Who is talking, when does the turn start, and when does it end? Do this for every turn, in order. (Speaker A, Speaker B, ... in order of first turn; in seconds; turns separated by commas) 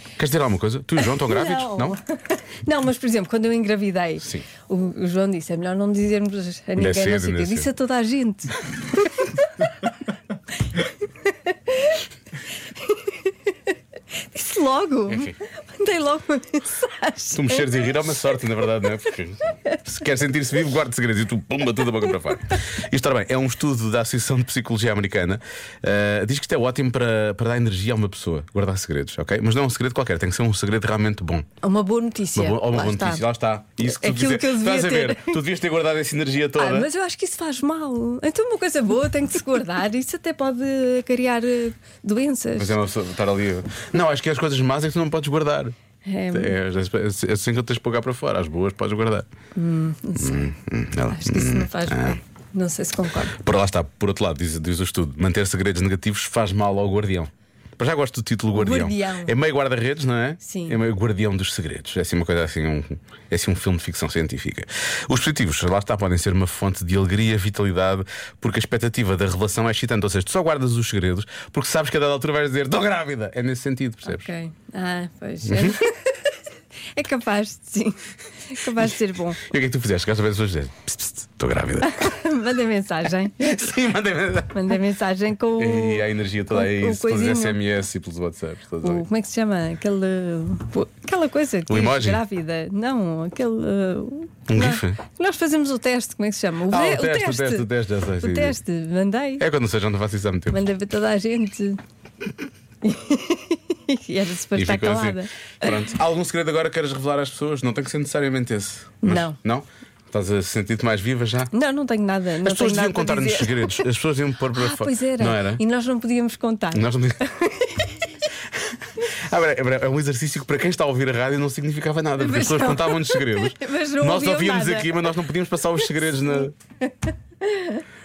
Speaker A: 0.2-2.0, Speaker B: 1.1-9.4, Speaker A: 6.8-7.7, Speaker B: 11.5-12.0, Speaker B: 12.8-13.3, Speaker B: 14.3-17.8, Speaker A: 15.1-15.3, Speaker A: 17.3-31.5, Speaker B: 31.6-33.2, Speaker A: 32.3-36.9, Speaker B: 33.8-35.4, Speaker B: 36.6-42.8, Speaker A: 42.6-45.8, Speaker B: 46.1-46.5, Speaker A: 46.3-49.2, Speaker B: 49.6-50.4, Speaker A: 50.2-52.2, Speaker B: 51.1-53.3, Speaker A: 53.4-74.3, Speaker B: 58.5-59.3, Speaker B: 60.4-60.8, Speaker B: 74.1-76.3, Speaker A: 75.5-75.8, Speaker B: 76.9-78.0, Speaker B: 78.5-79.4, Speaker A: 79.5-82.1, Speaker B: 81.8-83.5, Speaker A: 83.4-84.8, Speaker B: 84.5-87.6, Speaker A: 85.6-89.0, Speaker B: 88.8-97.7, Speaker A: 91.7-92.2, Speaker A: 94.5-95.0, Speaker A: 96.7-98.6, Speaker B: 98.2-99.4, Speaker A: 99.4-100.6, Speaker B: 100.5-101.8, Speaker B: 102.8-105.7, Speaker A: 104.5-111.5, Speaker B: 109.0-109.4, Speaker B: 111.5-113.8, Speaker A: 112.4-115.6, Speaker B: 114.5-118.0, Speaker A: 116.7-117.2, Speaker A: 119.3-126.5, Speaker B: 122.2-125.1, Speaker B: 127.4-127.8